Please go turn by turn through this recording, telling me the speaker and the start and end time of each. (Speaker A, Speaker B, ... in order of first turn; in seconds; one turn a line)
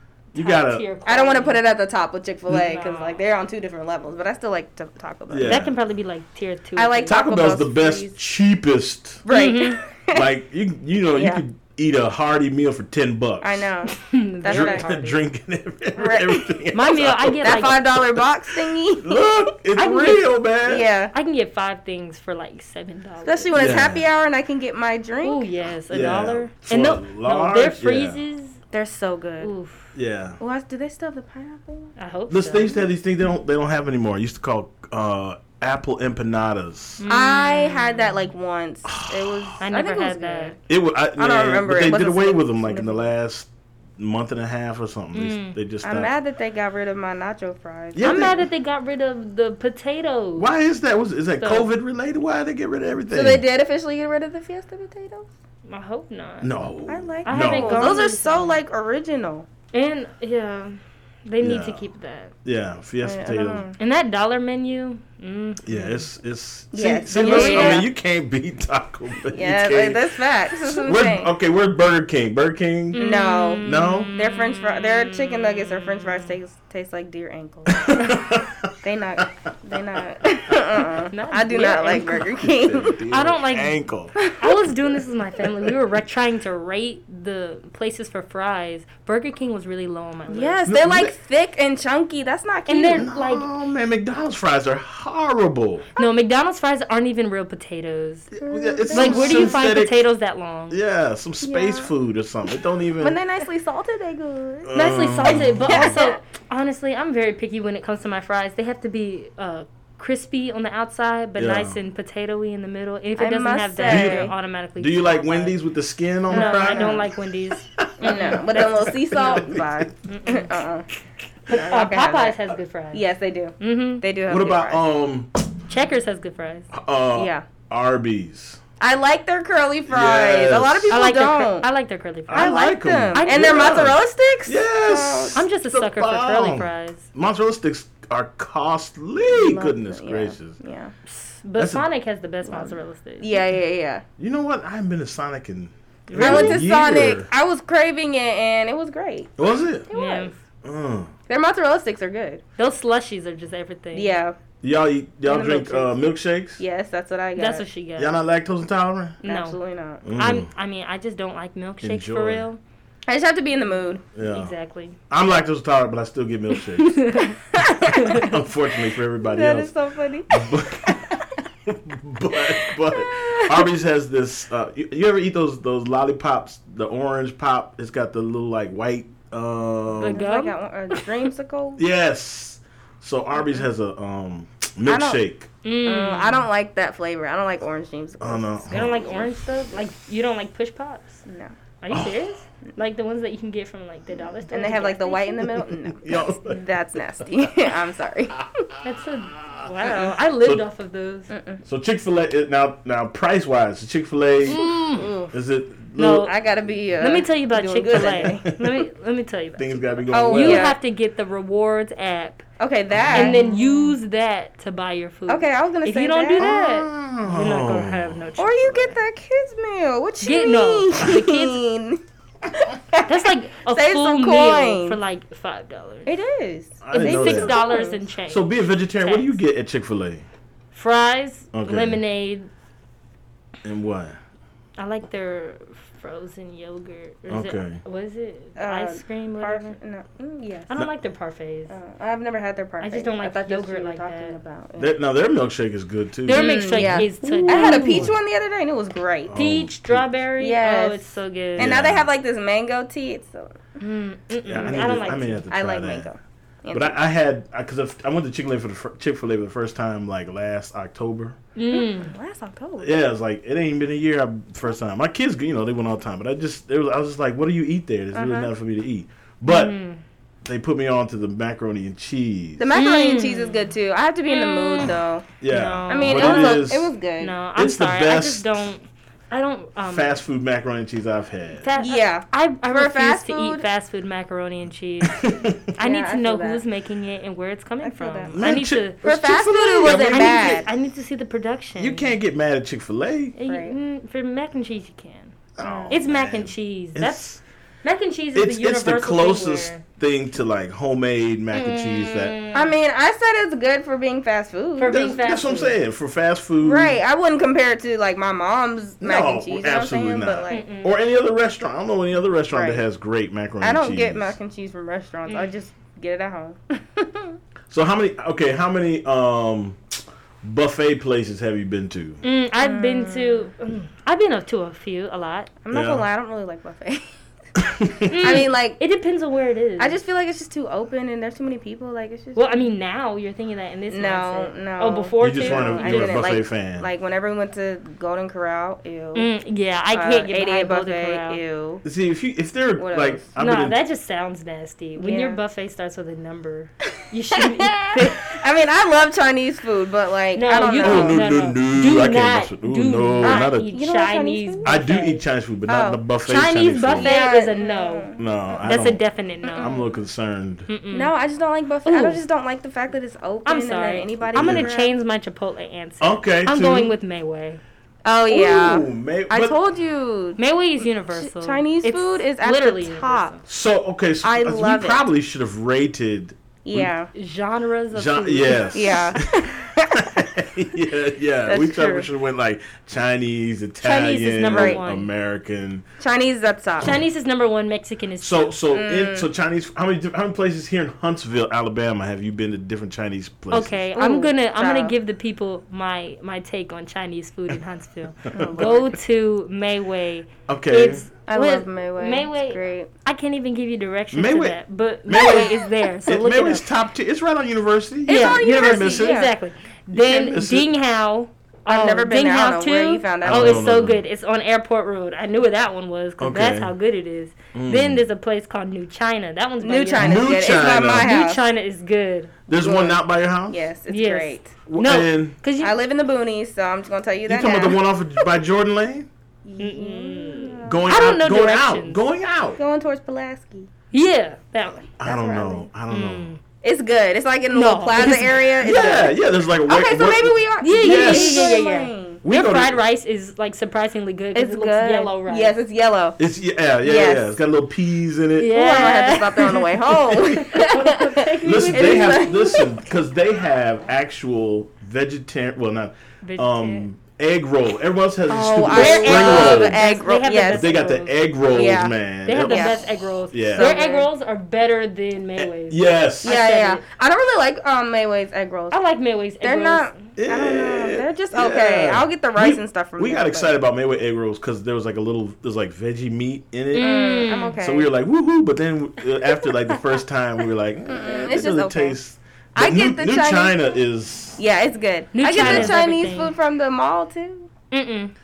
Speaker A: 0.3-1.6
Speaker B: 0.3-0.8
Speaker C: 1.0-5.6
Speaker A: 2.5-3.2
Speaker B: 5.3-5.7
Speaker A: 5.4-7.2
Speaker C: 6.8-8.2
Speaker B: 7.1-9.2
Speaker C: 9.2-10.3
Speaker A: 9.3-9.8
Speaker B: 10.1-13.7
Speaker C: 11.1-11.4
Speaker C: 13.4-14.8
Speaker A: 13.9-15.2
Speaker B: 14.5-17.8
Speaker C: 15.9-16.6
Speaker A: 16.7-17.9
Speaker C: 17.4-19.5
Speaker B: 19.0-20.9
Speaker A: 19.8-20.3
Speaker C: 20.6-21.1
Speaker A: 21.1-23.6
Speaker C: 23.2-25.5
Speaker B: 23.5-24.1
Speaker A: 25.2-28.6
Speaker B: 25.9-28.2
Speaker C: 28.7-29.5
Speaker A: 29.4-29.9
Speaker B: 29.9-30.4
Speaker C: 30.4-31.9
Speaker A: 32.0-32.8
Speaker B: 32.3-37.0
Speaker A: 37.0-38.2
Speaker C: 37.1-40.6
Speaker B: 38.9-39.6
Speaker A: 39.6-40.5
Speaker B: 40.7-46.1
Speaker C: 41.2-43.1
Speaker A: 45.1-45.5
Speaker C: 45.8-48.3
Speaker B: 47.9-48.4
Speaker A: 48.0-50.5
Speaker B: 50.4-53.4
Speaker A: 51.4-51.7
Speaker C: 53.1-55.3
Speaker A: 55.6-56.6
Speaker B: 56.4-58.0
Speaker C: 56.9-59.5
Speaker A: 57.2-58.6
Speaker A: 59.7-62.3
Speaker B: 61.4-61.9
Speaker B: 62.4-63.7
Speaker C: 63.0-63.8
Speaker A: 63.8-66.0
Speaker B: 65.6-73.0
Speaker C: 66.7-67.9
Speaker A: 67.1-67.9
Speaker C: 69.3-71.3
Speaker A: 72.9-76.3
Speaker C: 73.0-78.2
Speaker B: 73.6-74.1
Speaker B: 77.7-79.3
Speaker C: 78.8-83.0
Speaker A: 81.1-82.4
Speaker B: 82.3-84.2
Speaker A: 83.1-83.8
Speaker C: 84.2-84.7
Speaker A: 84.3-90.6
Speaker C: 90.3-93.1
Speaker B: 90.7-91.1
Speaker A: 92.7-93.5
Speaker B: 92.9-95.8
Speaker A: 96.0-98.3
Speaker B: 98.3-100.0
Speaker C: 98.4-99.6
Speaker A: 98.9-100.8
Speaker B: 100.7-103.2
Speaker C: 101.4-101.9
Speaker C: 103.0-106.2
Speaker B: 104.6-106.0
Speaker A: 104.7-115.6
Speaker B: 111.4-111.8
Speaker C: 113.2-114.3
Speaker B: 113.8-119.9
Speaker C: 116.3-117.1
Speaker A: 116.3-118.7
Speaker C: 118.0-120.8
Speaker A: 120.1-120.6
Speaker C: 121.5-122.4
Speaker A: 121.5-123.0
Speaker C: 122.9-124.8
Speaker A: 123.6-124.0
Speaker B: 124.3-125.5
Speaker A: 125.7-126.7
Speaker B: 126.7-128.6
Speaker C: 127.1-127.5
Speaker C: 128.8-131.7
Speaker B: 129.9-131.0
Speaker A: 130.9-133.7
Speaker B: 132.3-140.6
Speaker C: 132.3-135.4
Speaker A: 135.3-137.1
Speaker C: 139.2-140.9
Speaker A: 141.1-143.4
Speaker B: 141.6-141.8
Speaker C: 142.4-144.0
Speaker B: 144.2-147.3
Speaker A: 146.1-146.6
Speaker C: 146.1-149.3
Speaker B: 149.4-149.9
Speaker C: 149.9-150.3
Speaker A: 149.9-150.3
Speaker B: 150.6-151.1
Speaker C: 151.3-152.4
Speaker A: 152.6-154.1
Speaker C: 153.9-154.4
Speaker B: 154.6-156.6
Speaker C: 155.2-155.9
Speaker C: 156.6-157.7
Speaker A: 157.3-158.2
Speaker B: 158.0-159.2
Speaker A: 159.2-159.6
Speaker C: 159.2-160.0
Speaker B: 160.0-160.5
Speaker A: 160.1-162.6
Speaker B: 161.8-162.5
Speaker C: 163.1-164.0
Speaker B: 164.1-164.5
Speaker A: 164.3-165.0
Speaker B: 165.1-167.0
Speaker A: 166.7-167.3
Speaker C: 167.2-168.3
Speaker A: 167.9-168.3
Speaker B: 168.0-169.7
Speaker C: 169.2-171.2
Speaker B: 170.3-171.1
Speaker B: 171.7-180.2
Speaker C: 172.3-173.7
Speaker A: 180.0-181.1
Speaker C: 180.1-181.8
Speaker B: 181.8-185.5
Speaker C: 184.8-185.2
Speaker A: 185.6-186.4
Speaker C: 185.8-189.2
Speaker B: 188.2-189.2
Speaker A: 188.7-191.2
Speaker C: 191.2-191.5
Speaker A: 191.8-195.5
Speaker B: 191.9-192.2
Speaker C: 194.5-198.6
Speaker B: 195.4-196.6
Speaker A: 198.8-201.3
Speaker B: 199.4-200.6
Speaker C: 201.3-201.6
Speaker B: 201.6-204.6
Speaker A: 204.5-205.1
Speaker C: 204.5-205.3
Speaker B: 205.3-206.3
Speaker A: 205.9-206.3
Speaker C: 206.0-208.5
Speaker A: 207.0-212.4
Speaker B: 208.0-208.7
Speaker B: 209.6-210.7
Speaker C: 210.1-210.8
Speaker C: 212.6-214.0
Speaker B: 212.9-213.3
Speaker A: 213.1-219.0
Speaker C: 215.3-216.6
Speaker B: 216.4-218.2
Speaker C: 218.4-225.0
Speaker A: 220.2-221.6
Speaker A: 223.0-226.1
Speaker C: 226.1-228.0
Speaker B: 226.8-227.6
Speaker A: 226.9-229.4
Speaker B: 228.3-230.2
Speaker A: 230.7-232.5
Speaker B: 231.5-232.0
Speaker B: 233.6-234.2
Speaker A: 234.8-239.8
Speaker B: 237.3-237.8
Speaker C: 238.6-240.7
Speaker A: 240.7-241.8
Speaker C: 241.7-244.9
Speaker A: 242.8-244.3
Speaker B: 244.8-248.1
Speaker A: 246.3-248.2
Speaker C: 246.3-249.3
Speaker B: 249.3-250.1
Speaker A: 249.3-251.7
Speaker C: 250.4-251.0
Speaker C: 251.6-253.6
Speaker B: 251.6-252.1
Speaker A: 253.8-255.4
Speaker B: 254.4-256.1
Speaker C: 254.6-254.9
Speaker C: 255.5-257.0
Speaker B: 256.7-261.4
Speaker A: 261.6-262.1
Speaker C: 261.7-263.0
Speaker B: 262.8-269.7
Speaker C: 268.1-268.5
Speaker A: 269.4-270.0
Speaker B: 270.4-272.7
Speaker C: 272.6-275.3
Speaker A: 272.7-273.7
Speaker A: 274.2-280.2
Speaker B: 275.4-276.9
Speaker C: 275.9-277.3
Speaker B: 277.6-278.6
Speaker B: 279.9-281.7
Speaker A: 281.6-289.0
Speaker C: 281.8-283.6
Speaker B: 285.0-285.7
Speaker C: 285.8-286.6
Speaker C: 287.8-290.7
Speaker B: 288.3-290.7
Speaker A: 289.8-292.1
Speaker B: 291.8-293.4
Speaker A: 293.4-295.3
Speaker C: 293.4-293.7
Speaker B: 295.6-297.4
Speaker C: 295.6-296.0
Speaker A: 295.9-297.2
Speaker A: 297.8-299.8
Speaker B: 298.3-302.4
Speaker A: 301.5-302.7
Speaker C: 302.5-305.0
Speaker A: 304.8-305.7
Speaker B: 304.9-307.0
Speaker C: 306.6-310.6
Speaker B: 309.0-314.4
Speaker A: 310.5-310.9
Speaker C: 312.5-312.8
Speaker C: 313.6-317.4
Speaker B: 317.7-319.8
Speaker B: 320.4-322.2
Speaker A: 322.2-325.5
Speaker C: 322.6-323.5
Speaker C: 325.6-327.1
Speaker B: 325.7-326.0
Speaker B: 327.6-328.4
Speaker A: 328.1-330.0
Speaker C: 328.2-328.8
Speaker C: 329.8-332.6
Speaker A: 332.4-336.2
Speaker C: 333.9-339.3
Speaker B: 335.2-336.9
Speaker A: 339.1-341.4
Speaker C: 339.9-341.8
Speaker B: 341.8-343.8
Speaker C: 342.8-343.3
Speaker A: 343.4-348.4
Speaker C: 344.9-345.4
Speaker C: 347.3-351.3
Speaker A: 350.3-355.2
Speaker B: 350.8-353.7
Speaker C: 353.2-354.8
Speaker B: 354.6-357.1
Speaker C: 355.7-356.0
Speaker A: 356.2-358.1
Speaker C: 357.0-358.8
Speaker B: 358.2-359.0
Speaker A: 358.6-359.8
Speaker C: 359.4-359.9
Speaker B: 359.6-360.7
Speaker A: 360.7-361.1
Speaker C: 360.9-364.9
Speaker A: 361.9-362.2
Speaker A: 363.4-367.6
Speaker B: 364.3-364.7
Speaker B: 366.0-366.9
Speaker C: 368.0-373.4
Speaker B: 368.3-369.6
Speaker A: 370.4-373.4
Speaker B: 373.5-376.9
Speaker C: 374.2-375.0
Speaker C: 376.6-377.1
Speaker A: 377.1-379.1
Speaker B: 377.9-385.8
Speaker C: 378.7-380.2
Speaker C: 381.4-382.1
Speaker A: 383.8-385.1
Speaker C: 384.4-384.8
Speaker C: 386.0-387.0
Speaker A: 386.8-388.5
Speaker B: 388.2-393.8
Speaker C: 388.7-389.3
Speaker A: 393.5-406.7
Speaker C: 393.9-394.9
Speaker B: 398.3-398.7
Speaker C: 398.3-398.9
Speaker B: 400.5-401.0
Speaker C: 401.3-402.9
Speaker B: 404.1-409.2
Speaker C: 405.1-405.6
Speaker C: 408.1-409.3
Speaker A: 408.1-422.3
Speaker B: 409.9-410.7
Speaker C: 411.6-413.8
Speaker B: 413.2-414.0
Speaker B: 416.2-416.7
Speaker B: 417.5-418.0
Speaker C: 419.6-421.4
Speaker B: 420.0-421.1
Speaker B: 422.5-423.6
Speaker C: 422.5-424.5
Speaker A: 423.9-425.7
Speaker B: 424.7-425.4
Speaker C: 425.6-427.8
Speaker B: 427.3-429.1
Speaker C: 429.4-430.9
Speaker A: 429.6-432.0
Speaker B: 430.6-432.6
Speaker C: 432.6-433.7
Speaker A: 433.9-434.9
Speaker B: 435.0-436.3
Speaker C: 435.0-435.7
Speaker A: 435.9-436.4
Speaker C: 436.6-442.2
Speaker A: 437.5-438.5
Speaker B: 438.6-441.5
Speaker A: 440.6-445.5
Speaker B: 442.2-442.8
Speaker C: 444.3-446.2
Speaker B: 446.2-448.5
Speaker C: 446.8-447.4
Speaker A: 448.4-452.3
Speaker C: 448.5-452.7
Speaker B: 451.4-459.8
Speaker A: 456.2-456.9
Speaker C: 458.3-460.8
Speaker A: 458.7-461.1
Speaker B: 460.5-463.7
Speaker C: 461.5-462.9
Speaker A: 462.2-466.8
Speaker C: 463.5-464.1
Speaker B: 465.4-466.3
Speaker C: 466.2-468.8
Speaker A: 468.7-470.0
Speaker C: 469.4-473.5
Speaker B: 470.2-476.9
Speaker A: 476.7-477.6
Speaker C: 476.8-477.9
Speaker B: 477.6-484.4
Speaker C: 480.9-482.0
Speaker C: 482.5-483.6
Speaker C: 484.4-487.5
Speaker A: 485.1-486.3
Speaker B: 485.3-485.8
Speaker A: 487.7-488.1